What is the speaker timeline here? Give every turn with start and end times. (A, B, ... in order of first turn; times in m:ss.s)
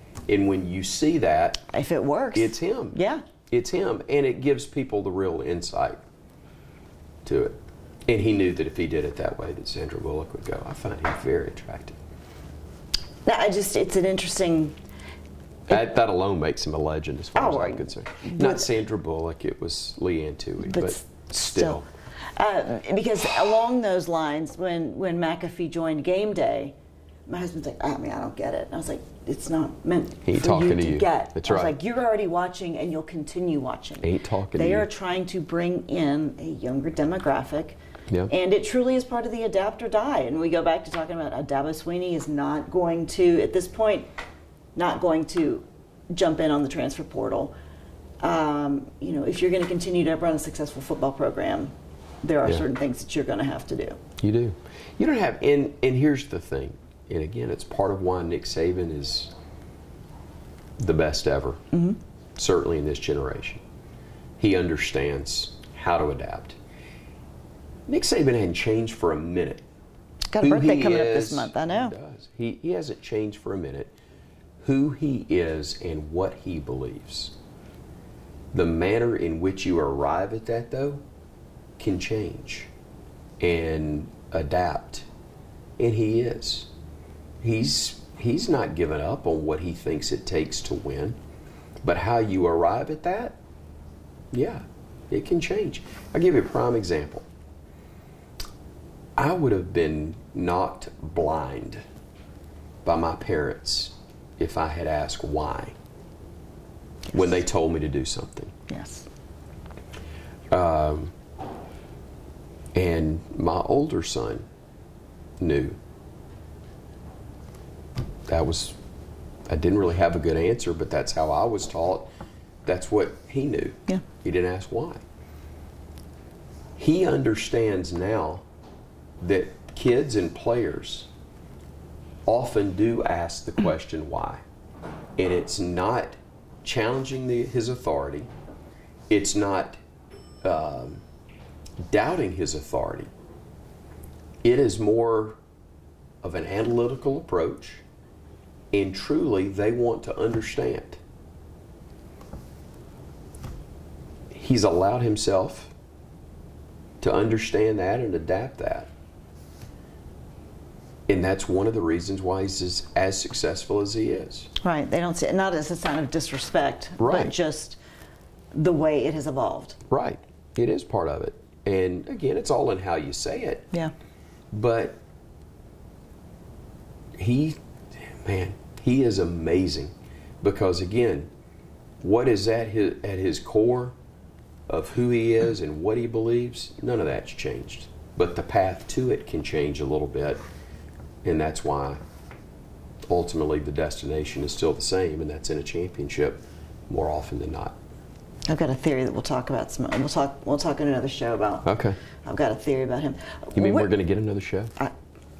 0:00.3-0:01.6 A
0:01.7-0:03.2 B
0:02.3-0:06.0 A
0:07.2-0:12.0 A
0:13.2-0:14.8 B
0:15.7-0:21.8 A
0:17.3-0:18.6 B
0:20.6-0:21.8 B
0:22.4-0:26.7 B
0:27.3-0:37.8 B
0:30.2-0:31.7 A
0:34.0-0:34.9 A
0:38.3-0:44.0 B
0:44.8-0:47.5 B
0:48.2-0:54.0 B
0:54.2-0:59.3 A
1:00.8-1:01.6 A
1:01.7-1:02.0 B
1:02.4-1:03.6 A
1:04.4-1:06.6 A
1:07.9-1:09.6 A
1:10.3-1:11.9 B
1:10.4-1:13.9 A
1:14.6-1:17.3 A
1:18.5-1:21.0 A
1:21.8-1:22.7 A
1:23.4-1:25.1 A
1:25.8-1:26.7 A
1:27.4-1:31.2 A
1:31.8-1:33.4 A
1:34.3-1:37.3 A
1:39.2-1:41.8 A
1:42.8-1:45.7 A
1:47.1-1:48.5 A
1:48.7-1:49.1 B
1:50.5-1:51.1 A
1:52.7-1:54.4 A
1:55.4-1:55.8 A
1:58.3-1:58.8 A
1:59.5-2:02.1 A
2:02.6-2:05.0 A
2:06.8-2:08.4 A
2:09.2-2:11.1 A
2:12.2-2:14.4 A
2:15.2-2:18.3 A
2:19.1-2:19.8 A
2:20.4-2:21.0 A
2:21.9-2:23.1 A
2:24.4-2:25.4 A
2:26.2-2:27.8 A
2:28.7-2:31.0 A
2:34.3-2:35.7 A
2:37.0-2:38.9 A
2:41.1-2:44.5 A
2:44.6-2:47.8 B
2:47.0-2:47.3 A
2:48.5-2:49.8 B
2:49.9-2:53.7 A
2:54.5-2:55.0 A
2:57.2-3:01.3 A
3:02.0-3:04.0 A
3:04.7-3:10.4 A
3:11.2-3:12.0 A
3:13.1-3:17.8 A
3:18.5-3:21.7 B
3:21.6-3:22.0 A
3:22.2-3:23.9 B
3:23.5-3:24.7 A